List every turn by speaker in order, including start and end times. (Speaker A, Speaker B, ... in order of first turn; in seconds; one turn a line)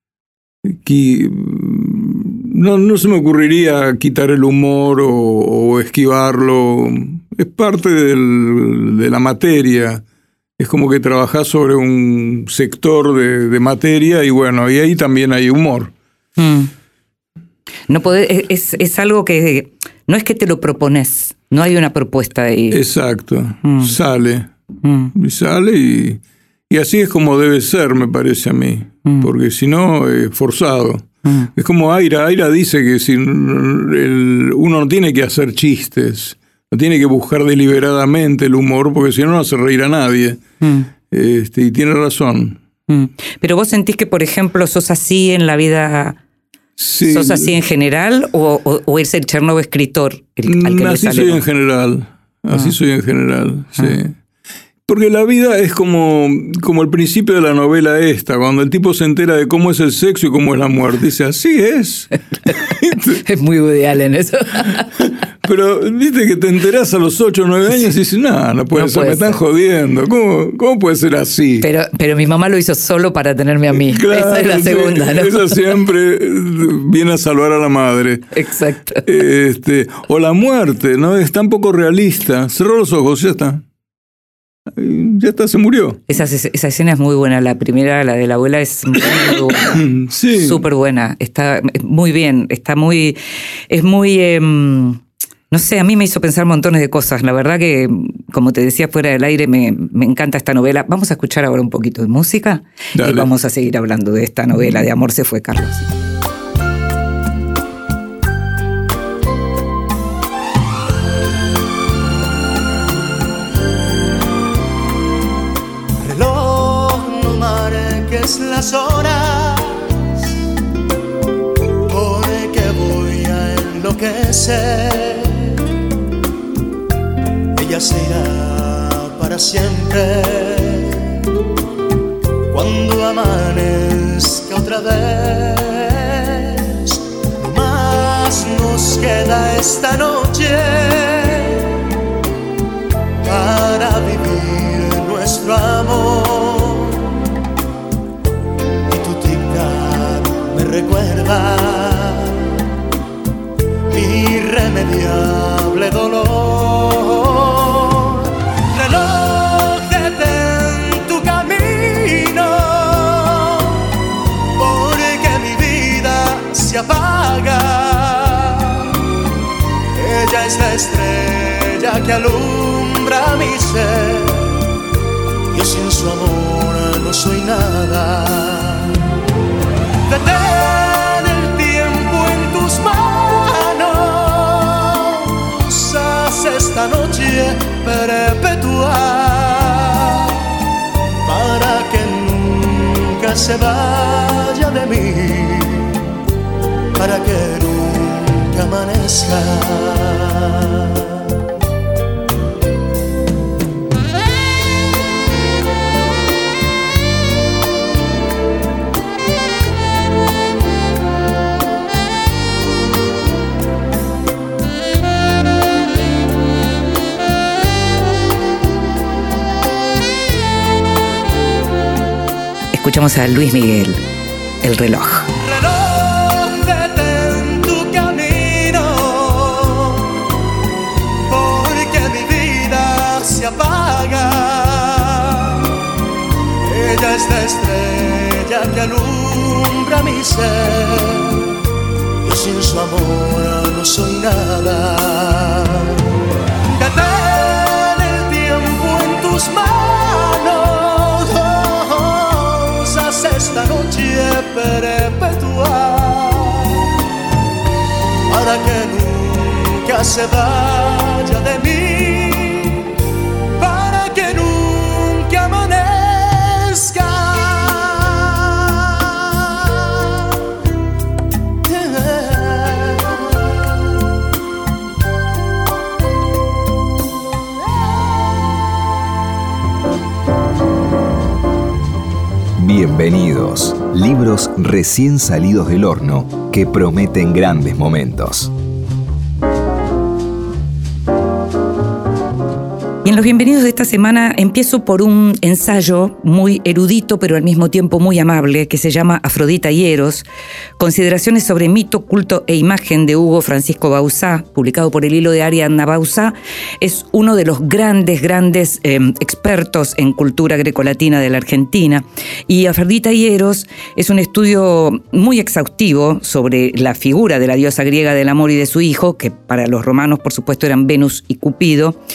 Speaker A: 0.6-10.0
Speaker A: 10.6-15.9
Speaker B: 16.4-16.7
Speaker B: 17.9-22.8
Speaker A: 22.7-24.5
Speaker B: 23.6-24.0
Speaker B: 24.8-25.1
Speaker A: 25.1-40.4
Speaker B: 31.2-31.5
Speaker B: 40.6-40.9
Speaker A: 41.1-42.6
Speaker B: 42.9-46.2
Speaker A: 46.8-47.5
Speaker B: 47.1-51.4
Speaker A: 50.5-54.2
Speaker A: 54.9-63.2
Speaker B: 63.2-64.9
Speaker A: 65.0-71.7
Speaker B: 68.8-69.4
Speaker B: 71.6-75.6
Speaker A: 73.8-78.3
Speaker B: 78.3-79.0
Speaker A: 79.0-83.6
Speaker A: 84.8-86.0
Speaker B: 86.1-89.8
Speaker A: 89.7-90.6
Speaker B: 90.3-93.2
Speaker B: 93.7-105.9
Speaker A: 103.0-103.3
Speaker C: 116.0-120.1
Speaker C: 121.9-125.6
Speaker C: 127.5-131.2
Speaker C: 132.5-141.7
Speaker C: 143.2-147.1
Speaker C: 148.9-152.5
Speaker C: 153.9-163.9
Speaker C: 164.6-168.9
Speaker C: 169.9-174.6
Speaker C: 175.5-179.0
Speaker C: 180.1-190.4
Speaker C: 191.2-196.0
Speaker C: 197.0-201.0
Speaker B: 222.7-224.0
Speaker B: 224.6-225.3
Speaker C: 225.4-230.1
Speaker C: 231.3-235.7
Speaker C: 236.7-241.5
Speaker C: 242.2-246.0
Speaker C: 246.7-256.9
Speaker C: 258.3-262.9
Speaker C: 263.6-270.1
Speaker C: 271.6-273.6
Speaker D: 282.6-288.5
Speaker B: 293.0-300.3
Speaker B: 300.8-322.0